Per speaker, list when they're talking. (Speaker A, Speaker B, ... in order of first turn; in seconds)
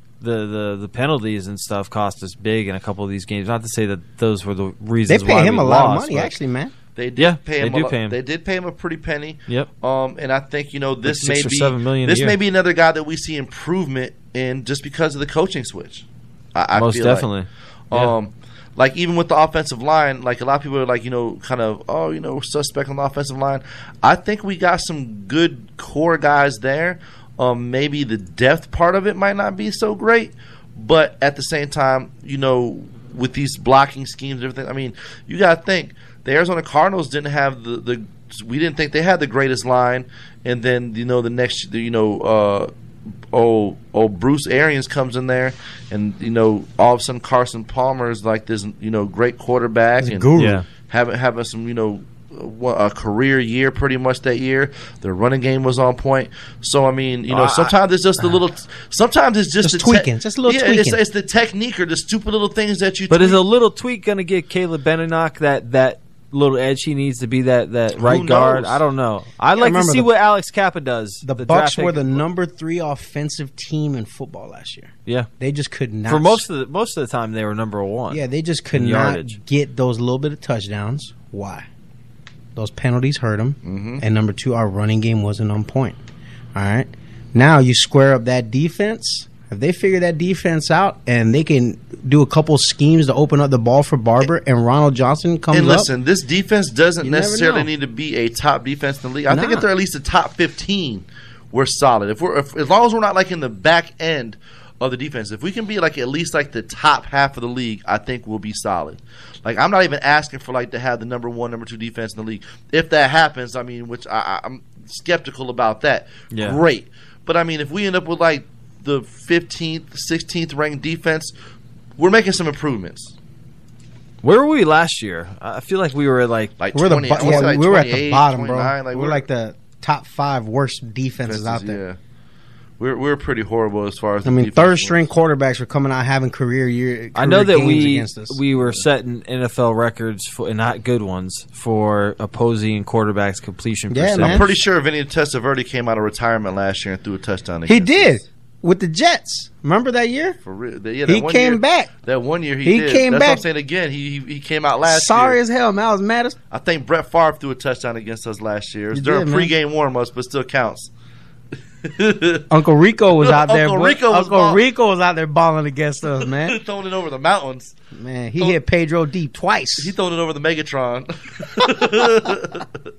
Speaker A: 0.2-6.4, 7.2-8.2, 11.0-12.3, 16.7-18.1, 50.4-50.6, 57.3-57.7, 63.1-72.2, 76.1-78.2, 78.7-79.4, 116.3-116.6, 124.2-126.5, 137.2-144.4
Speaker B: 5.1-6.7, 50.0-50.6, 59.6-61.0, 69.5-70.1, 71.2-76.4, 78.1-81.7, 82.5-86.0, 86.5-95.9, 97.0-97.7, 99.3-99.7, 126.7-131.8, 134.2-138.4, 143.9-144.4, 147.7-150.4, 151.1-151.9, 152.6-153.4, 154.8-156.3, 158.9-159.5, 162.5-166.6, 167.9-169.9
Speaker C: 7.0-17.3, 17.9-42.7, 43.3-63.4, 68.0-68.8, 83.6-84.0, 95.5-121.3, 122.0-123.1, 126.6-129.2, 131.2-132.0, 132.8-135.0, 144.2-148.2, 150.4-155.4, 156.5-160.9, 161.8-162.4, 163.2-164.6, 166.3-167.7, 169.8-172.7